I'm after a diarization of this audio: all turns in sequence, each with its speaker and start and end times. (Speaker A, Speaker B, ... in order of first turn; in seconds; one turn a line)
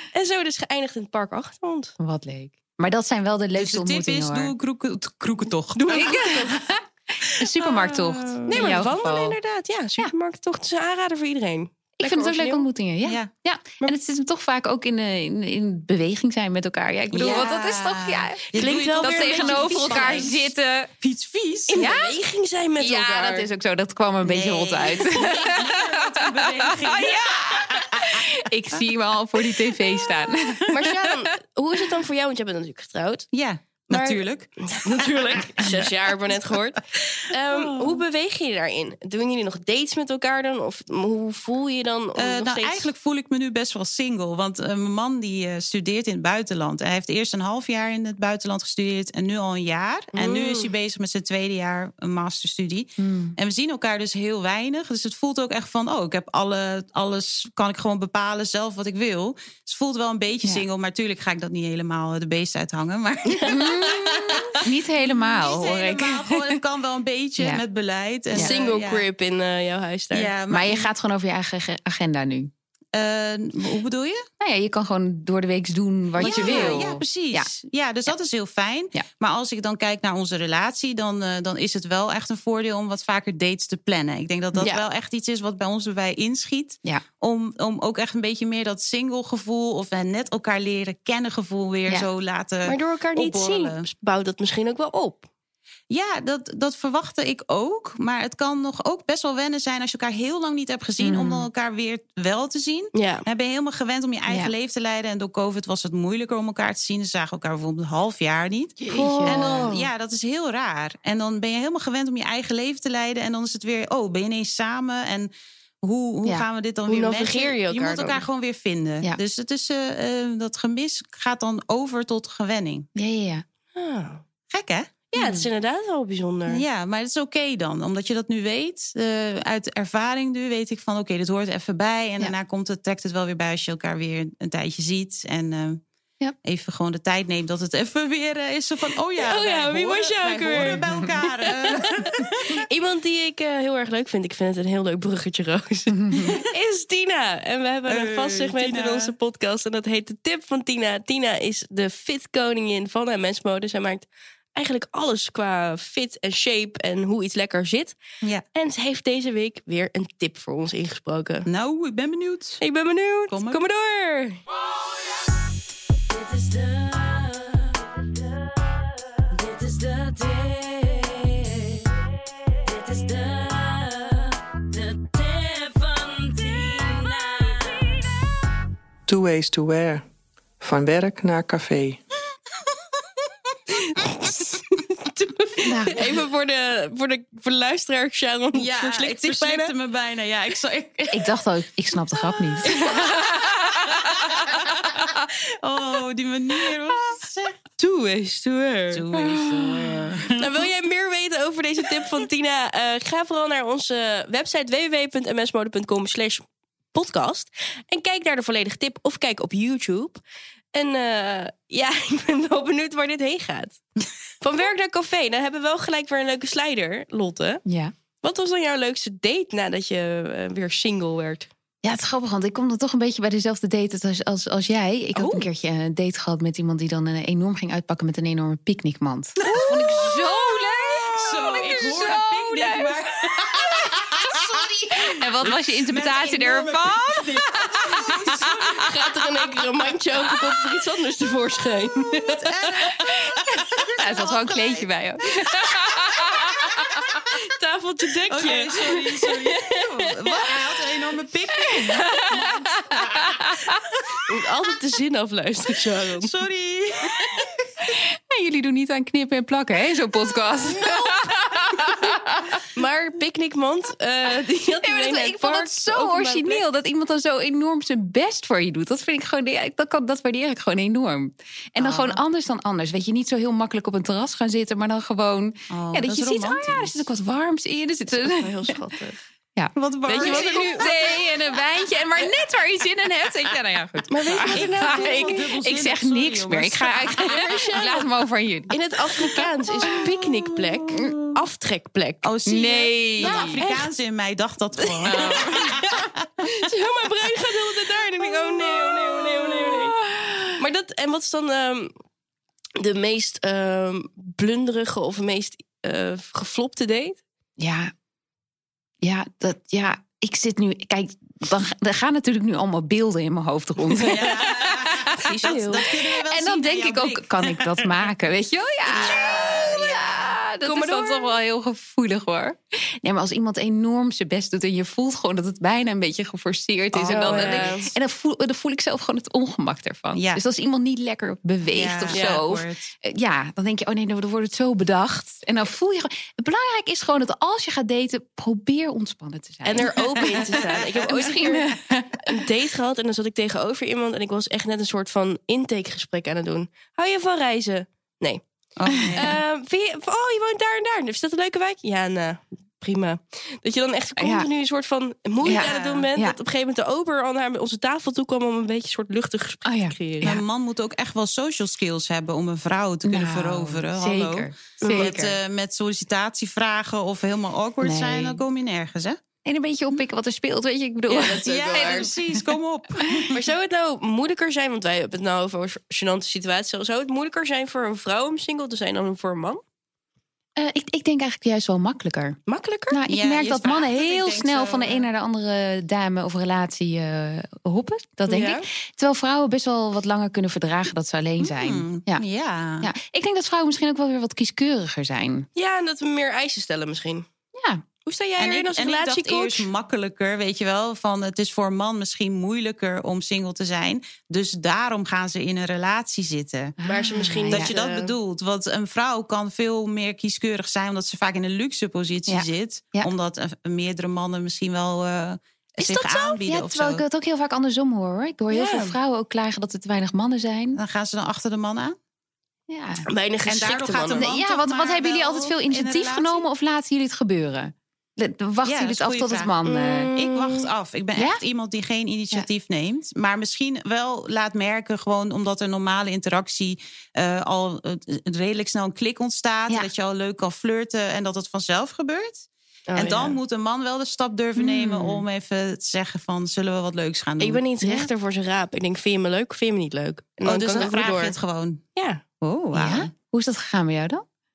Speaker A: 0.1-2.0
Speaker B: 2.0-4.5
Speaker C: 3.5-6.6
Speaker A: 5.8-6.6
Speaker B: 5.9-9.4
Speaker C: 7.6-8.8
Speaker A: 8.5-12.7
Speaker B: 12.0-20.9
Speaker C: 13.1-13.3
Speaker C: 17.1-21.9
Speaker A: 18.6-20.3
Speaker A: 21.7-23.5
Speaker B: 21.8-22.1
Speaker B: 22.8-31.2
Speaker C: 24.2-28.3
Speaker A: 30.7-33.3
Speaker C: 33.3-35.8
Speaker A: 33.9-42.9
Speaker C: 37.6-38.0
Speaker C: 42.2-69.0
Speaker A: 50.1-50.7
Speaker B: 53.0-53.4
Speaker A: 63.3-63.6
Speaker B: 63.5-66.6
Speaker A: 68.4-70.3
Speaker C: 70.1-70.9
Speaker B: 70.5-72.5
Speaker C: 72.9-74.2
Speaker B: 74.4-77.5
Speaker A: 76.2-76.9
Speaker C: 76.2-93.9
Speaker A: 84.5-84.8
Speaker A: 92.7-95.3
Speaker C: 95.9-115.3
Speaker B: 101.0-101.5
Speaker A: 102.9-103.3
Speaker B: 104.3-104.5
Speaker B: 108.8-109.7
Speaker A: 108.9-109.9
Speaker C: 115.8-122.9
Speaker A: 116.9-118.2
Speaker B: 123.0-123.4
Speaker A: 123.7-124.2
Speaker C: 124.5-124.9
Speaker A: 125.1-126.6
Speaker B: 125.2-125.5
Speaker C: 126.5-135.8
Speaker C: 136.4-142.6
Speaker A: 139.2-158.0
Speaker B: 140.6-141.1
Speaker B: 145.9-146.4
Speaker C: 147.9-149.1
Speaker A: 158.6-161.5
Speaker C: 161.5-162.6
Speaker A: 162.6-164.4
Speaker C: 163.3-163.6
Speaker A: 166.1-167.9
Speaker A: 169.3-171.8
Speaker A: 172.7-174.3
Speaker A: 174.9-178.0
Speaker D: 179.1-180.1
Speaker D: 180.6-182.0
Speaker A: 183.8-189.7
Speaker B: 185.6-186.1
Speaker C: 188.5-191.4
Speaker B: 191.1-193.5
Speaker A: 192.7-194.6
Speaker C: 194.1-197.6
Speaker A: 197.8-199.1
Speaker C: 198.9-200.5
Speaker B: 199.6-199.9
Speaker A: 200.4-210.2
Speaker A: 210.7-213.8
Speaker A: 214.4-217.6
Speaker B: 217.7-217.9
Speaker A: 218.2-221.5
Speaker B: 221.8-234.4
Speaker C: 229.5-239.0
Speaker B: 235.0-238.9
Speaker A: 238.8-242.4
Speaker C: 242.4-244.9
Speaker B: 242.9-247.2
Speaker C: 246.5-247.1
Speaker A: 247.4-250.3
Speaker C: 248.3-254.2
Speaker B: 251.8-253.6
Speaker A: 251.8-252.4
Speaker A: 254.3-256.3
Speaker C: 256.2-257.7
Speaker B: 257.9-262.6
Speaker A: 262.7-266.6
Speaker B: 264.8-278.7
Speaker C: 271.8-272.1
Speaker C: 275.7-277.0
Speaker A: 278.2-279.2
Speaker B: 279.6-288.7
Speaker C: 279.8-281.0
Speaker A: 280.1-280.9
Speaker A: 284.1-285.4
Speaker C: 284.5-287.5
Speaker A: 287.2-288.1
Speaker A: 288.7-292.3
Speaker C: 289.9-291.4
Speaker C: 292.2-296.3
Speaker B: 292.5-293.6
Speaker A: 293.2-293.9
Speaker A: 294.9-300.0
Speaker B: 295.1-295.7
Speaker B: 299.4-300.6
Speaker A: 300.6-301.9
Speaker A: 302.8-307.2
Speaker B: 307.6-307.9
Speaker B: 309.0-342.2
Speaker C: 314.0-317.9
Speaker A: 314.0-314.3
Speaker A: 315.2-315.9
Speaker C: 318.9-320.3
Speaker A: 320.6-321.3
Speaker C: 326.9-327.7
Speaker A: 327.1-327.9
Speaker C: 330.1-330.4
Speaker C: 331.7-332.9
Speaker A: 332.1-332.4
Speaker A: 339.6-341.7
Speaker A: 342.2-348.4
Speaker C: 348.8-349.4
Speaker B: 348.9-349.2
Speaker A: 349.2-360.3
Speaker B: 354.2-354.5
Speaker C: 355.4-356.1
Speaker B: 355.5-356.4
Speaker B: 359.6-360.4
Speaker C: 360.2-369.2
Speaker B: 363.1-365.4
Speaker A: 364.8-365.1
Speaker B: 367.8-368.4
Speaker B: 369.4-372.5
Speaker A: 371.1-372.1
Speaker C: 371.4-373.4
Speaker A: 373.3-379.6
Speaker B: 380.6-382.4
Speaker A: 382.5-383.0
Speaker B: 382.9-392.2
Speaker C: 383.1-385.1
Speaker A: 388.3-388.7
Speaker C: 391.4-392.9
Speaker B: 392.8-395.5
Speaker A: 395.6-397.3
Speaker B: 397.6-397.8
Speaker A: 398.1-399.7
Speaker C: 398.4-406.8
Speaker B: 406.8-407.7
Speaker A: 406.9-408.1
Speaker C: 407.5-417.0
Speaker B: 412.3-413.1
Speaker B: 415.8-420.8
Speaker A: 418.5-419.0
Speaker C: 420.8-422.0
Speaker B: 422.7-423.1
Speaker A: 423.1-424.3
Speaker C: 423.5-426.5
Speaker B: 424.1-430.1
Speaker C: 428.6-429.5
Speaker A: 429.6-430.7
Speaker C: 430.2-447.6
Speaker B: 431.2-431.4
Speaker A: 442.9-443.4
Speaker B: 444.6-445.2
Speaker A: 447.4-451.4
Speaker B: 447.8-448.1
Speaker C: 450.4-451.8
Speaker A: 452.0-452.2
Speaker C: 452.4-453.1
Speaker B: 452.7-454.2